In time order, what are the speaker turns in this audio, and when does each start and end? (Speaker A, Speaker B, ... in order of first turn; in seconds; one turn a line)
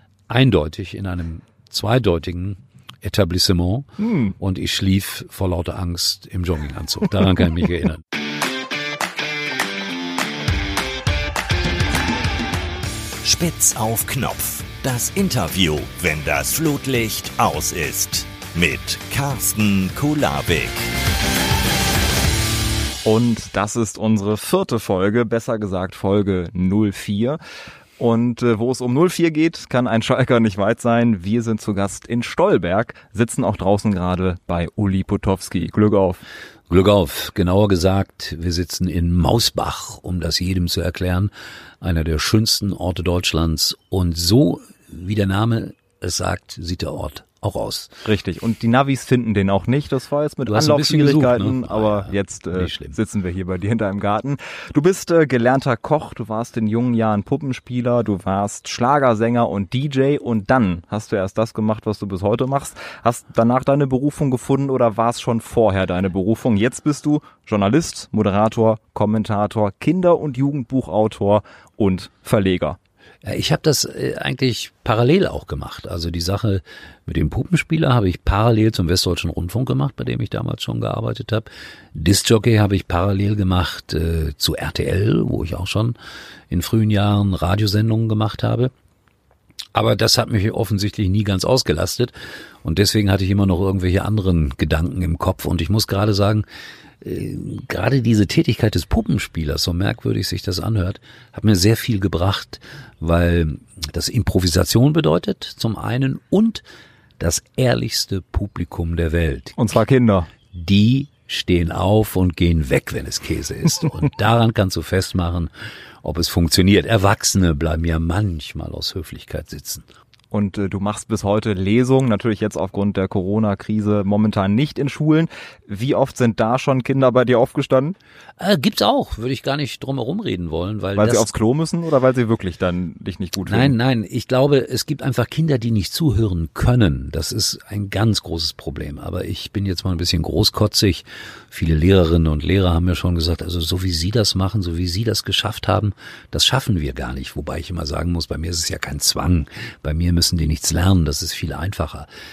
Speaker A: 0.3-8.0
Speaker B: 4.0-4.3
Speaker C: 13.2-20.9
Speaker B: 23.1-27.4
Speaker B: 28.0-36.2
Speaker A: 36.7-47.9
Speaker B: 48.0-72.8
Speaker A: 50.5-53.0
Speaker A: 73.2-86.0
Speaker A: 86.5-88.7
Speaker A: 89.8-96.5
Speaker A: 97.0-106.6
Speaker A: 107.2-109.6
Speaker B: 109.6-110.3
Speaker A: 110.5-115.5
Speaker A: 116.0-119.8
Speaker B: 120.3-128.0
Speaker A: 128.4-131.3
Speaker B: 131.0-133.7
Speaker A: 133.5-152.1